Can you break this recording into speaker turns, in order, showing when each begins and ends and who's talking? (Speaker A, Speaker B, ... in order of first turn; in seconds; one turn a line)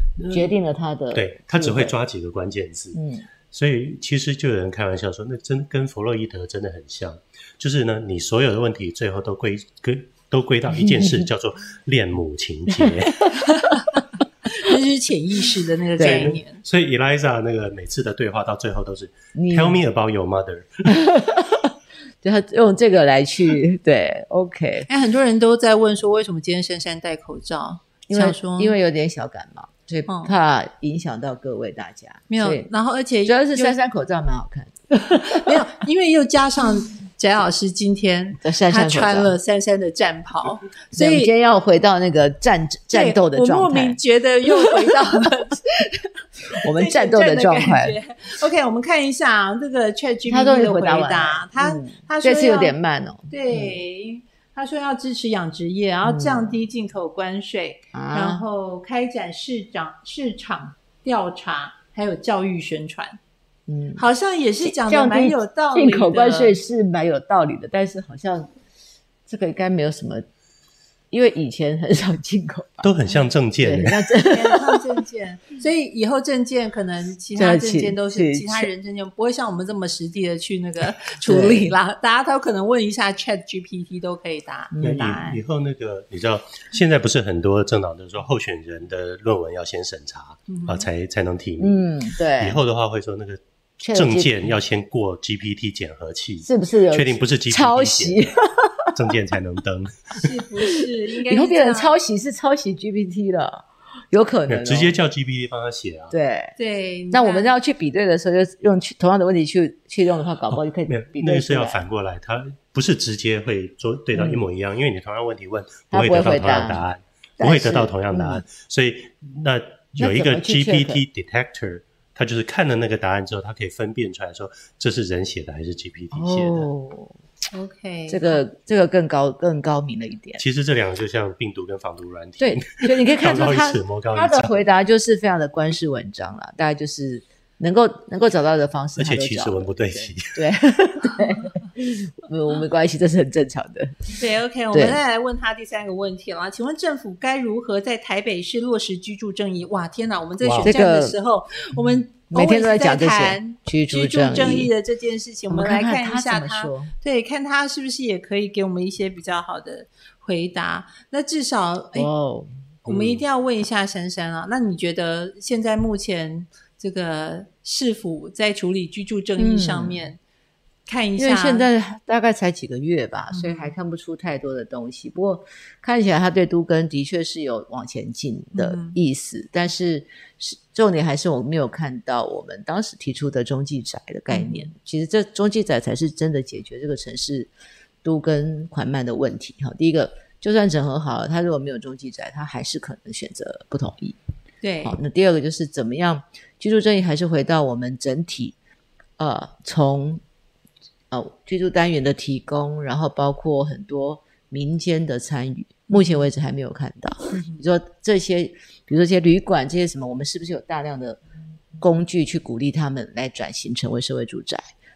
Speaker A: 0.2-1.9
Speaker B: 1.1-3.0
Speaker A: 2.9-3.2
Speaker B: 3.5-13.3
Speaker A: 10.7-11.2
Speaker A: 12.8-13.5
Speaker C: 13.4-13.8
Speaker C: 14.5-16.6
Speaker A: 16.0-16.4
Speaker B: 16.0-21.1
Speaker A: 19.3-19.8
Speaker A: 20.9-21.7
Speaker A: 22.2-24.9
Speaker C: 24.9-28.8
Speaker A: 28.1-32.7
Speaker C: 32.3-33.8
Speaker A: 33.2-35.3
Speaker C: 35.3-41.3
Speaker A: 38.4-39.3
Speaker A: 40.9-44.0
Speaker C: 42.9-46.1
Speaker A: 46.6-48.0
Speaker C: 46.7-52.8
Speaker A: 50.3-53.8
Speaker C: 53.3-63.2
Speaker A: 56.0-56.6
Speaker A: 57.9-58.4
Speaker A: 63.7-64.0
Speaker C: 64.0-66.6
Speaker A: 64.6-68.5
Speaker A: 69.3-70.2
Speaker A: 71.1-73.0
Speaker B: 72.8-74.1
Speaker A: 73.6-74.8
Speaker C: 74.2-85.4
Speaker A: 77.3-78.7
Speaker A: 81.2-81.8
Speaker A: 84.7-85.2
Speaker B: 84.8-98.3
Speaker C: 90.5-90.9
Speaker A: 91.6-92.6
Speaker A: 93.8-94.5
Speaker A: 96.5-98.9
Speaker B: 98.9-100.3
Speaker C: 100.2-101.9
Speaker A: 101.3-105.0
Speaker B: 104.5-106.1
Speaker A: 106.1-106.5
Speaker C: 106.6-107.5
Speaker A: 107.1-111.8
Speaker B: 110.8-126.7
Speaker A: 114.1-114.4
Speaker A: 115.9-116.8
Speaker A: 117.4-118.4
Speaker A: 120.0-121.0
Speaker A: 126.1-127.1
Speaker C: 127.5-128.4
Speaker A: 128.1-130.4
Speaker B: 130.4-134.6
Speaker A: 132.4-144.2
Speaker B: 138.9-140.5
Speaker C: 144.2-162.1
Speaker A: 144.7-145.0
Speaker B: 150.4-150.7
Speaker A: 150.6-151.2
Speaker A: 152.3-154.7
Speaker A: 155.5-156.9
Speaker A: 161.9-162.5
Speaker B: 162.8-163.2
Speaker C: 162.8-170.2
Speaker A: 169.4-170.0
Speaker C: 170.8-171.7
Speaker A: 171.2-187.5
Speaker C: 173.3-173.8
Speaker C: 178.6-179.0
Speaker C: 184.3-184.7
Speaker A: 188.0-194.2
Speaker C: 194.6-195.0
Speaker A: 194.8-198.6
Speaker A: 199.2-200.2
Speaker A: 201.1-211.2
Speaker C: 205.9-206.2
Speaker C: 207.3-207.6
Speaker A: 211.8-214.6